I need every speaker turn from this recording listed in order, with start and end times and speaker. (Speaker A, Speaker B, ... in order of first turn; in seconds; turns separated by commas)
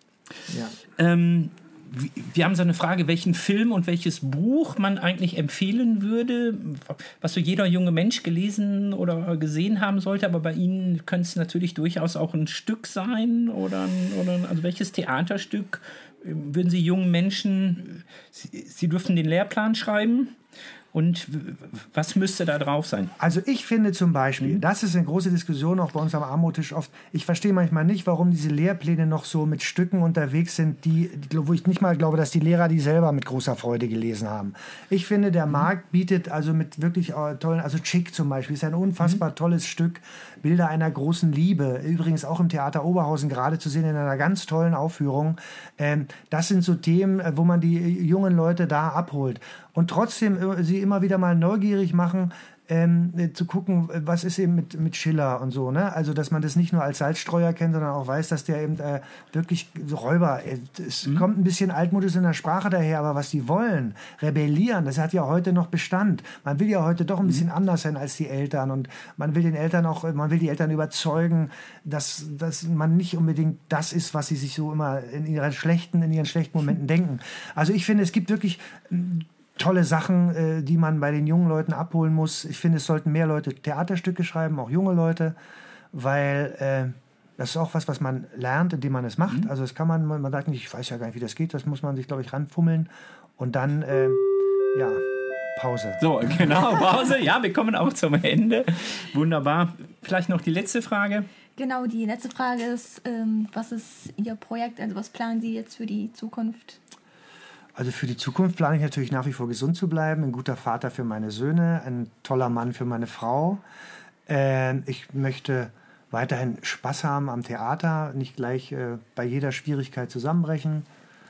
Speaker A: 0.5-0.8, Speaker B: 0.5-20.4, Speaker B: 20.9-23.1, Speaker A: 23.2-85.3, Speaker A: 85.9-96.0, Speaker B: 96.0-101.3, Speaker C: 101.6-106.8, Speaker A: 107.8-113.6, Speaker A: 114.3-120.9